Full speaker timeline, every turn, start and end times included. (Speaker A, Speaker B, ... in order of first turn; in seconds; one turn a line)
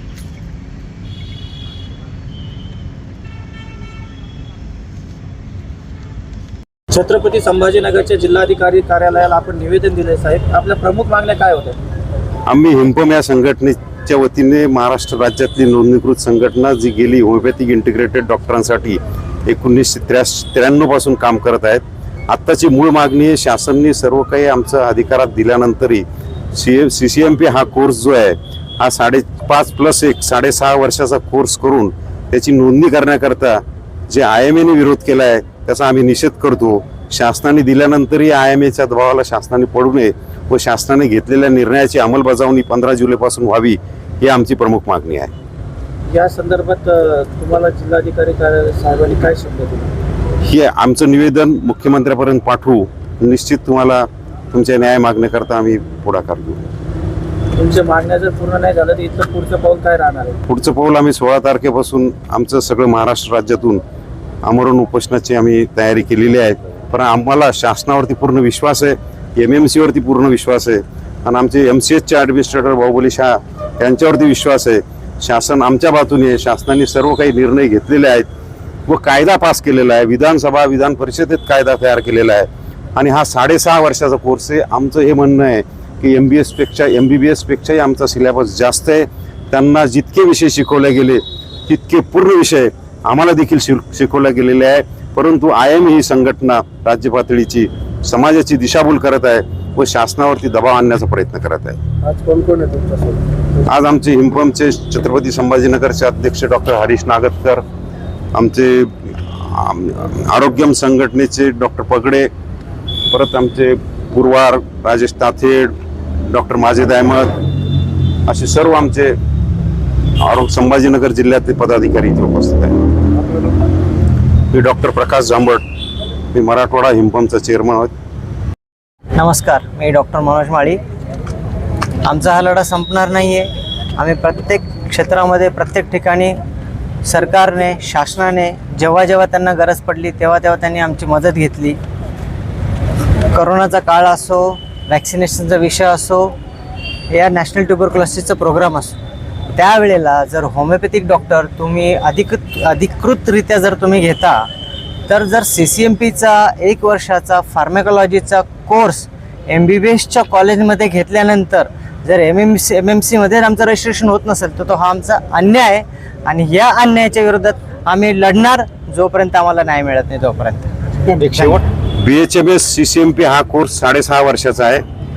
Speaker A: 6.9-11.8
Speaker B: 12.4-45.3
Speaker A: 46.1-49.9
Speaker B: 50.4-56.6
Speaker A: 57.5-60.4
Speaker B: 60.5-63.8
Speaker B: 64.4-78.3
Speaker B: 78.9-101.8
Speaker A: 102.2-103.2
Speaker B: 103.6-107.6
Speaker B: 108.3-112.3
Speaker B: 113.1-115.7
Speaker B: 116.3-117.3
Speaker B: 118.3-119.2
Speaker B: 120.2-122.8
Speaker B: 124.5-125.6
Speaker B: 126.3-127.9
Speaker C: 129.2-130.8
Speaker C: 132.0-136.3
Speaker C: 137.0-141.8
Speaker C: 143.3-146.3
Speaker C: 147.1-148.9
Speaker C: 149.5-154.5
Speaker C: 155.1-171.6
Speaker B: 171.2-174.8